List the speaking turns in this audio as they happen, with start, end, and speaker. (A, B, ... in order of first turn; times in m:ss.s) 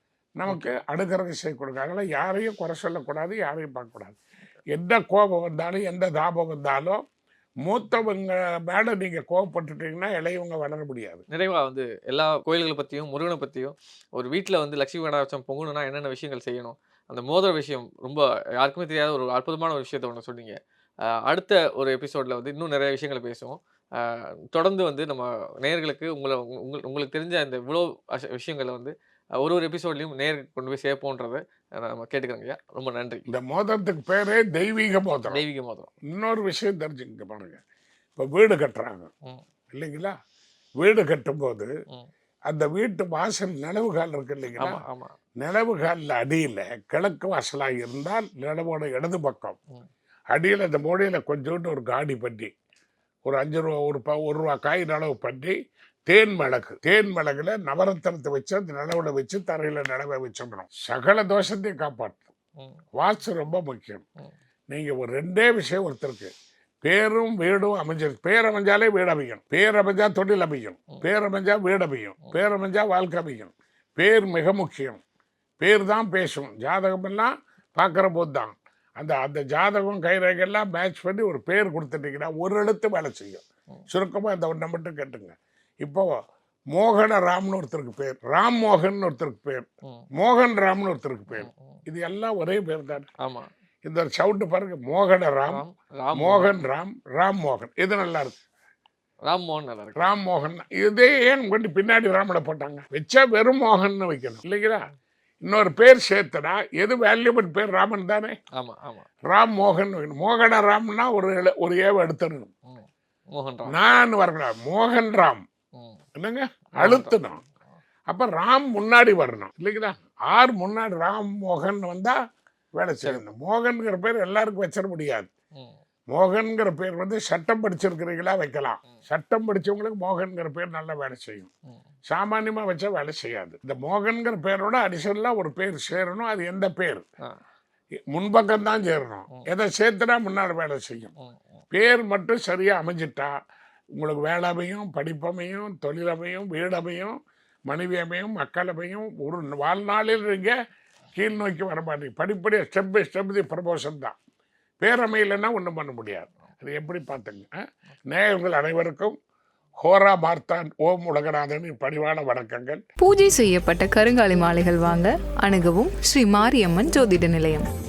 0:00.4-0:04.2 A
0:00.5-0:00.8 B
0:04.7-0:07.0 A
0:07.6-0:11.2 A
0:11.3-0:33.2 B
0:33.3-0:35.4 A
0:35.3-0:35.9 B
0:36.1-0:37.6 A
0:38.2-0:39.1 A
0:39.7-0:40.2 A
0:40.8-0:41.7 A
0:42.5-0:44.8 A
0:44.6-0:45.1 B
0:45.4-0:49.6 A
0:50.3-0:52.5 A
0:53.2-0:55.6 A
0:56.1-1:02.3 A
1:03.0-1:04.0 A
1:04.7-1:06.3 A
1:06.8-1:15.0 A
1:15.6-1:26.1 A
1:26.7-1:29.6 A
1:29.8-1:30.1 B
1:30.2-1:33.1 A
1:31.3-1:31.8 B
1:33.2-1:33.5 B
1:33.8-1:35.6 A
1:35.5-1:36.5 B
1:36.1-1:38.4 A
1:39.3-1:40.1 B
1:40.0-1:44.8 A
1:45.4-1:48.4 A
1:48.6-1:49.1 B
1:49.3-1:52.5 A
1:52.7-1:53.7 B
1:53.7-1:55.4 A
1:56.2-1:57.4 A
1:56.8-1:57.2 B
1:58.1-2:02.2 A
2:02.8-2:05.3 A
2:06.1-2:11.5 A
2:12.1-2:17.0 A
2:18.1-2:21.1 A
2:21.2-2:21.6 B
2:21.7-2:23.3 A
2:24.0-2:30.5 A
2:31.2-2:34.2 A
2:34.8-2:37.5 A
2:38.1-2:39.2 A
2:39.8-2:42.8 A
2:43.0-2:47.6 C